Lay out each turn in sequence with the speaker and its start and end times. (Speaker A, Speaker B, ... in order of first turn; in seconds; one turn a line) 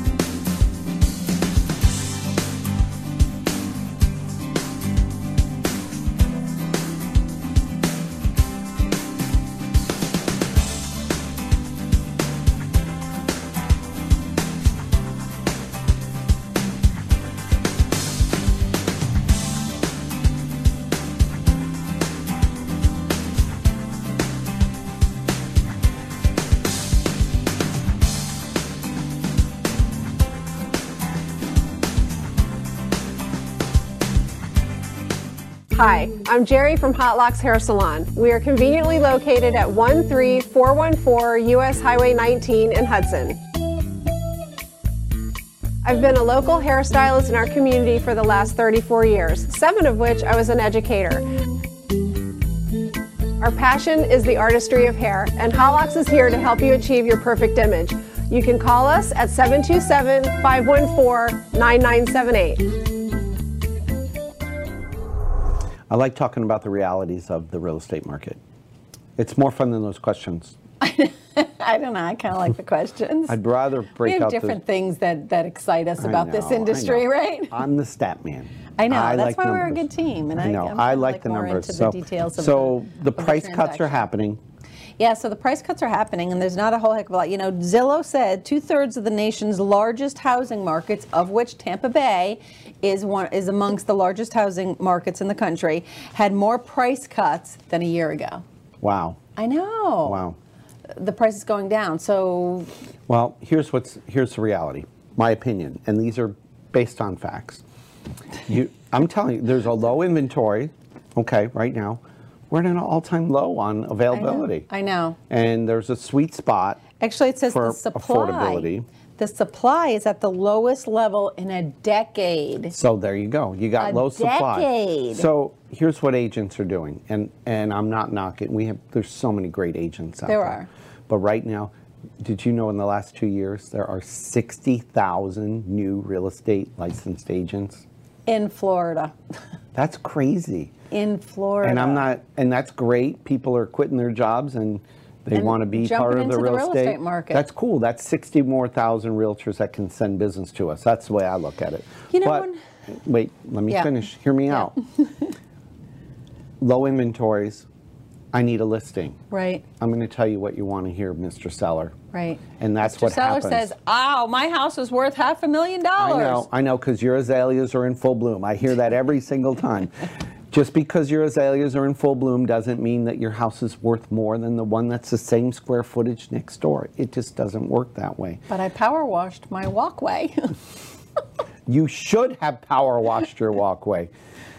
Speaker A: 35.7-43.4
Speaker A: 45.8-51.3
Speaker A: 53.4-62.6
Speaker B: 65.9-68.4
Speaker B: 69.2-70.6
Speaker C: 70.8-73.4
Speaker B: 73.3-74.6
Speaker C: 74.0-77.6
Speaker B: 76.0-79.8
Speaker C: 78.8-84.1
Speaker B: 80.4-84.4
Speaker C: 85.0-98.4
Speaker B: 98.8-99.2
Speaker C: 99.4-100.2
Speaker B: 100.0-100.4
Speaker C: 101.0-102.7
Speaker B: 103.1-107.6
Speaker B: 108.5-114.7
Speaker C: 114.1-115.2
Speaker B: 115.3-116.8
Speaker C: 117.0-122.7
Speaker B: 117.5-118.9
Speaker B: 122.7-137.8
Speaker C: 123.8-125.3
Speaker C: 130.3-130.7
Speaker C: 138.3-139.2
Speaker B: 139.8-140.7
Speaker C: 140.9-142.1
Speaker B: 141.6-152.5
Speaker C: 145.3-147.4
Speaker C: 152.1-152.6
Speaker B: 153.0-154.8
Speaker C: 154.5-155.3
Speaker B: 156.6-157.7
Speaker B: 158.3-159.2
Speaker C: 159.3-159.7
Speaker B: 159.8-162.0
Speaker C: 162.1-166.5
Speaker B: 162.6-163.7
Speaker B: 166.0-178.4
Speaker C: 178.5-180.6
Speaker B: 181.7-184.1